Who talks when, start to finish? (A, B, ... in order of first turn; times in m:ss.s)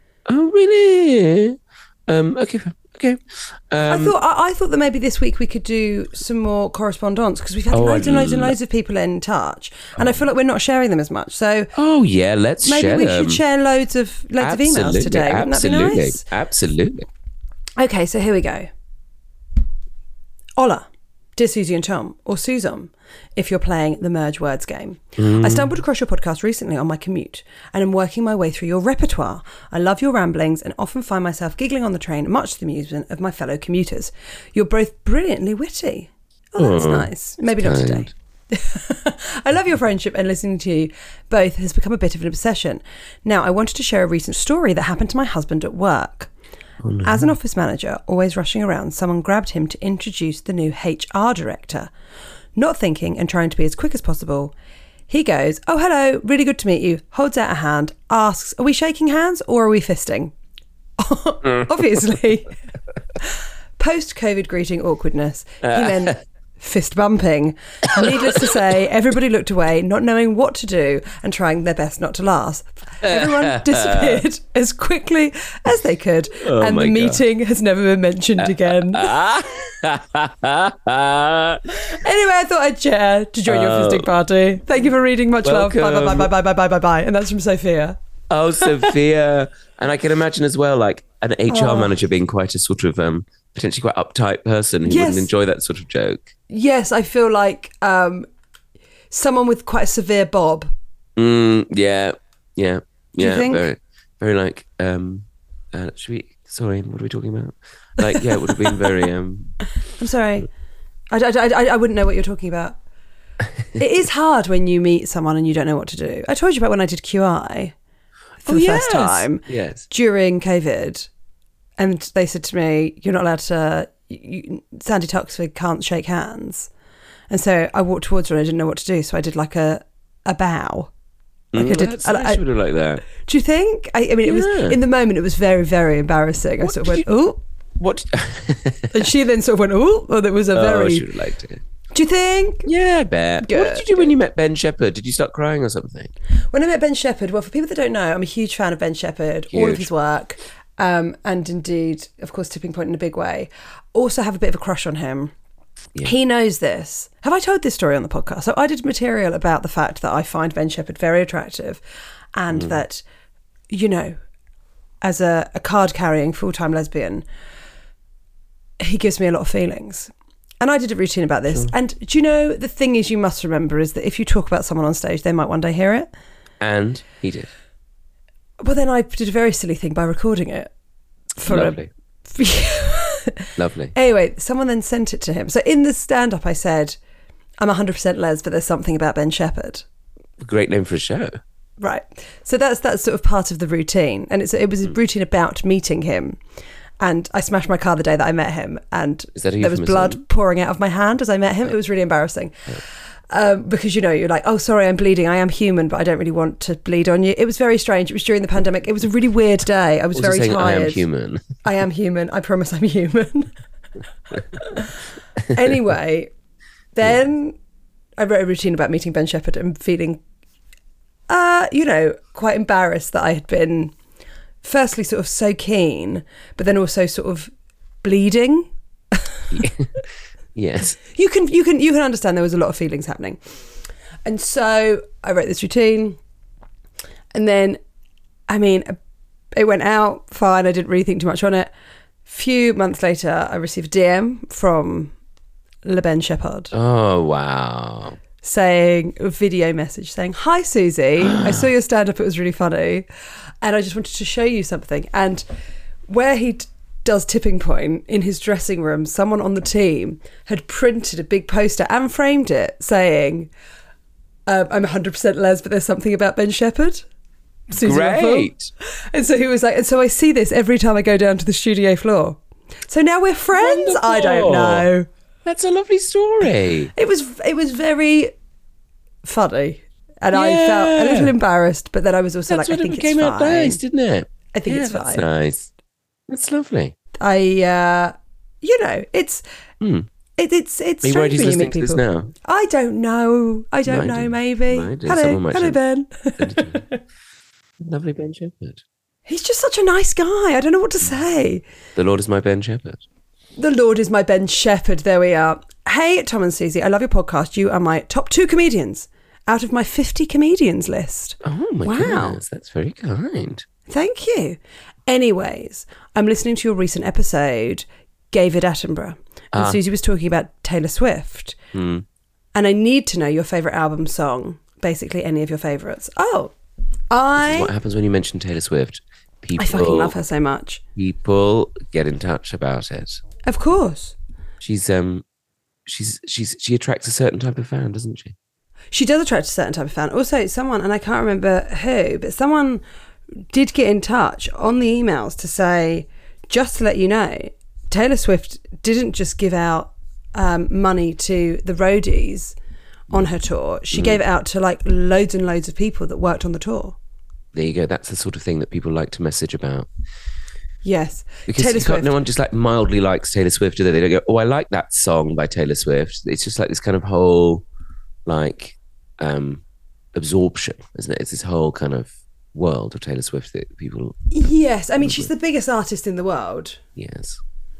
0:00.3-0:04.1 A
0:03.9-0:11.7 B
0:07.7-0:08.5 A
0:11.7-0:13.4 A
0:12.6-0:16.2 B
0:14.4-0:17.1 A
0:17.8-0:18.7 B
0:20.6-0:46.3 B
0:25.2-0:25.7 A
0:36.6-0:38.1 A
0:46.8-0:47.3 A
0:47.0-0:51.9 B
0:52.6-0:54.5 B
0:55.1-1:00.3 B
1:01.0-1:02.5 B
1:03.2-1:19.1 B
1:05.7-1:06.1 A
1:13.0-1:14.2 A
1:16.4-1:17.2 A
1:18.4-1:21.6 A
1:21.8-1:28.0 B
1:23.4-1:24.1 A
1:25.4-1:26.3 A
1:28.3-1:36.3 A
1:28.6-1:28.9 B
1:31.5-1:31.9 B
1:34.8-1:35.3 B
1:36.5-1:38.3 B
1:39.1-1:40.7 B
1:41.2-1:49.6 A
1:43.2-1:43.6 B
1:50.0-1:50.5 B
1:51.1-1:52.8 B
1:53.8-1:57.7 B
1:58.4-2:01.1 B
1:58.4-1:59.8 A
2:01.8-2:06.7 B
2:07.3-2:10.9 B
2:11.5-2:13.0 A
2:11.5-2:12.4 B
2:13.0-2:17.4 B
2:14.2-2:14.8 A
2:16.6-2:17.0 A
2:17.8-2:19.0 A
2:18.9-2:21.1 B
2:20.5-2:21.6 A
2:21.9-2:22.7 B
2:22.6-2:26.1 A
2:23.4-2:24.1 B
2:26.5-2:35.3 B
2:29.5-2:29.9 A
2:36.0-2:41.8 B
2:42.3-2:43.0 B
2:43.7-2:44.2 B
2:45.0-2:47.2 B
2:48.8-2:56.1 B
2:56.6-2:57.5 A
2:58.6-3:00.7 B
3:01.4-3:07.0 B
3:01.4-3:01.9 A
3:03.6-3:03.9 A
3:07.6-3:09.8 B
3:10.4-3:11.4 A
3:11.8-3:16.4 B
3:17.0-3:31.0 B
3:19.4-3:20.2 A
3:30.1-3:31.4 A
3:31.6-3:33.5 B
3:34.5-3:34.9 B
3:35.5-3:36.3 B
3:36.9-3:37.6 B
3:38.2-3:40.2 B
3:41.3-3:43.9 B
3:44.6-3:47.5 B
3:48.0-3:49.2 B
3:49.5-3:49.9 A
3:50.5-3:51.0 A
3:51.1-3:53.4 B
3:54.2-3:56.2 B
3:57.3-3:57.8 B
3:58.5-3:59.0 B
3:59.5-4:01.7 B
4:02.2-4:05.1 B
4:05.8-4:06.7 B
4:06.7-4:08.2 A
4:08.4-4:13.1 B
4:11.3-4:11.6 A
4:13.6-4:15.4 B
4:16.1-4:23.5 B
4:24.5-4:27.0 B
4:27.7-4:28.5 B
4:27.7-4:28.7 A
4:29.1-4:35.1 B
4:33.5-4:34.9 A
4:35.4-4:36.9 A
4:36.9-4:38.3 B
4:39.2-4:43.8 B
4:40.3-4:41.3 A
4:42.5-4:45.7 A
4:44.5-4:45.2 B
4:46.3-4:46.9 A
4:47.2-4:49.4 B
4:49.8-4:50.1 A
4:50.4-4:57.0 B
4:51.0-4:52.3 A
4:53.9-4:55.8 A
4:56.4-4:56.8 A
4:57.8-4:58.8 A
4:59.3-5:01.6 B
5:02.0-5:03.0 A
5:03.6-5:12.4 B
5:11.4-5:13.6 A
5:13.9-5:21.6 B
5:19.5-5:19.8 A
5:21.7-5:22.0 A
5:22.5-5:26.5 B
5:27.1-5:27.7 B
5:27.4-5:30.2 A
5:29.6-5:30.8 B
5:31.0-5:33.2 A
5:33.4-5:34.2 B
5:34.6-5:35.2 A
5:35.8-5:38.3 A
5:38.9-5:42.8 B
5:43.5-5:52.6 B
5:53.1-5:57.0 B
5:53.9-5:54.2 A
5:57.5-5:59.9 A
6:00.8-6:02.1 B
6:01.5-6:07.6 A
6:08.2-6:09.6 A
6:10.1-6:14.2 A
6:14.3-6:16.8 B
6:15.0-6:15.3 A
6:17.0-6:17.4 A